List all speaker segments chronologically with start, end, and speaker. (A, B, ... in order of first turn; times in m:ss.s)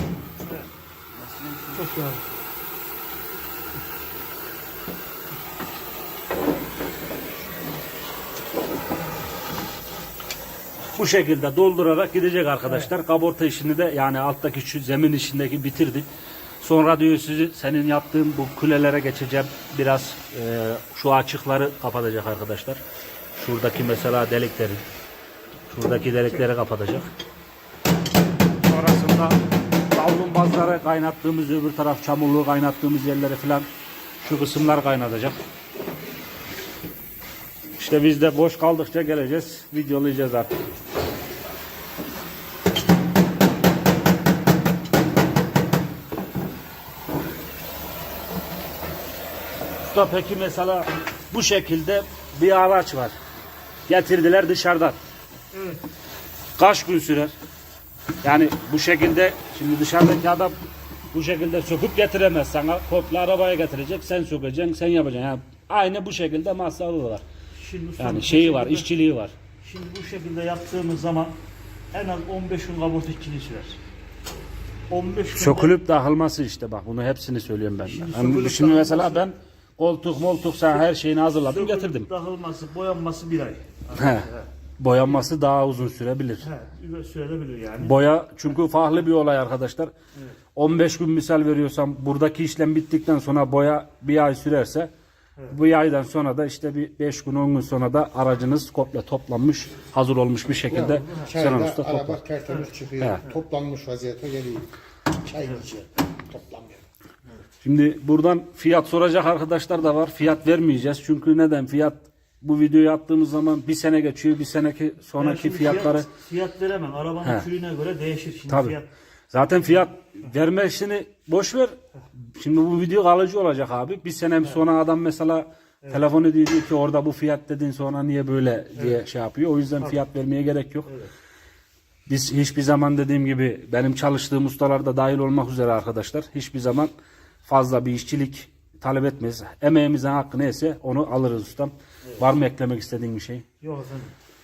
0:01.3-0:01.8 A
0:01.7-0:02.2 B
0:11.0-0:16.1 A
0:16.6-0:22.8 A
0:23.4-0:24.8 A
0:25.7-0:27.1 A
0:28.6-0:33.7 A
0:34.2-0:35.4 A
0:37.8-0:40.6 A
0:49.8-0:53.1 A
0:53.9-0:55.0 A
0:55.5-0:55.8 B
0:56.6-0:57.3 A
0:58.2-1:00.6 A
1:01.1-1:07.2 A
1:07.5-1:08.9 B
1:08.0-1:09.3 A
1:09.6-1:11.4 B
1:11.9-1:13.8 B
1:14.9-1:15.8 B
1:15.3-1:22.1 A
1:17.8-1:19.3 B
1:21.4-1:24.5 B
1:23.9-1:26.5 A
1:26.4-1:28.0 B
1:27.8-1:29.9 A
1:30.6-1:34.9 A
1:35.4-1:42.2 A
1:41.0-1:46.8 C
1:43.0-1:43.3 A
1:47.6-1:56.1 A
1:55.2-1:58.9 B
1:58.5-1:58.8 A
1:59.3-2:10.9 A
2:08.8-2:09.0 B
2:12.1-2:16.9 A
2:17.4-2:23.4 A
2:23.6-2:24.1 B